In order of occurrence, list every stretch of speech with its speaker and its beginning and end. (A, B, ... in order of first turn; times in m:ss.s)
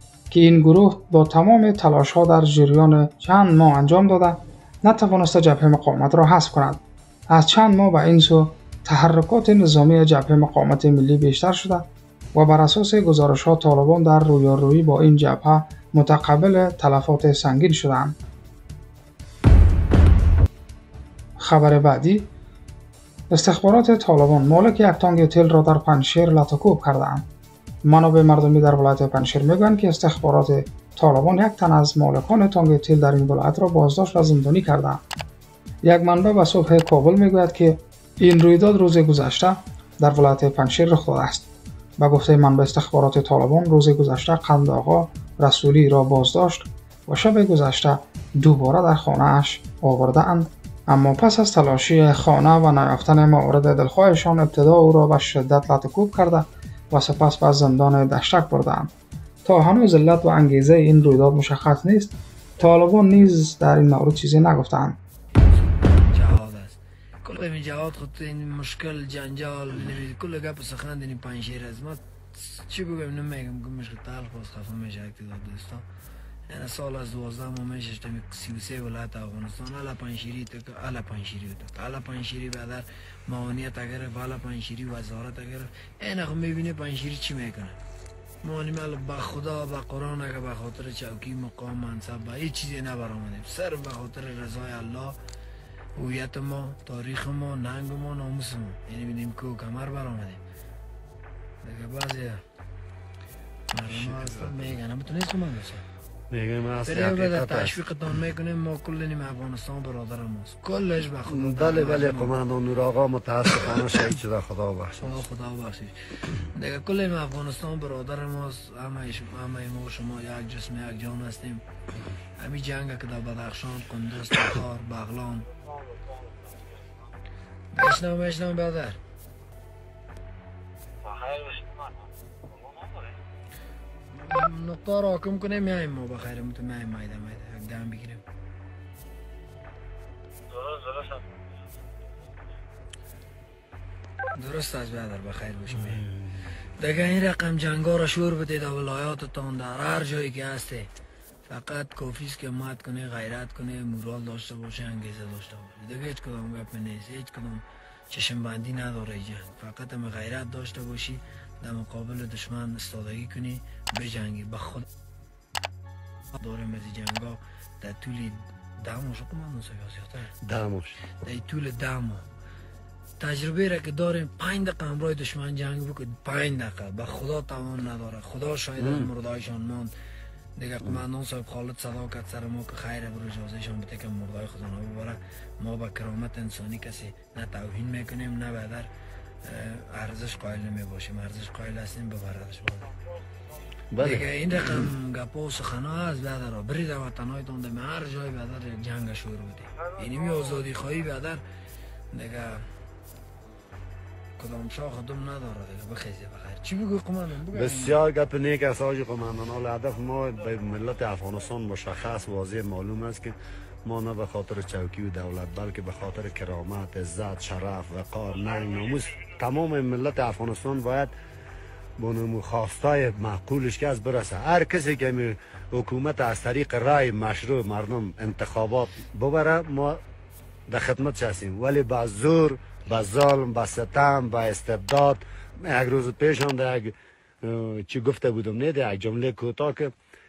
0:00.3-0:18.2 A
0:21.4-0:22.3 A
0:23.3-0:27.2 A
0:27.8-0:35.0 A
0:35.8-0:58.9 A
0:59.4-1:05.0 A
1:05.5-1:15.8 B
1:16.5-1:27.8 B
1:28.4-1:35.2 B
1:36.0-1:40.4 B
1:41.6-1:42.4 B
1:43.7-1:45.8 B
1:43.9-1:44.8 C
1:46.3-1:47.8 C
1:46.8-1:52.3 B
1:51.3-1:55.2 C
1:55.0-2:01.6 B
2:02.4-2:05.5 B
2:07.7-2:09.0 B
2:14.1-2:18.2 B
2:24.3-2:26.0 B
2:26.8-2:30.9 B
2:31.5-2:44.8 B
2:46.4-2:50.3 B
2:50.4-2:51.0 C
2:51.2-2:52.2 B
2:53.2-2:59.9 B
2:58.8-2:59.1 C
3:00.6-3:08.9 B
3:09.4-3:12.9 B
3:13.9-3:14.9 C
3:14.0-3:21.4 B
3:22.1-3:22.6 B
3:24.4-3:28.0 B
3:27.5-3:41.1 C
3:42.0-3:50.0 C
3:50.7-3:59.9 C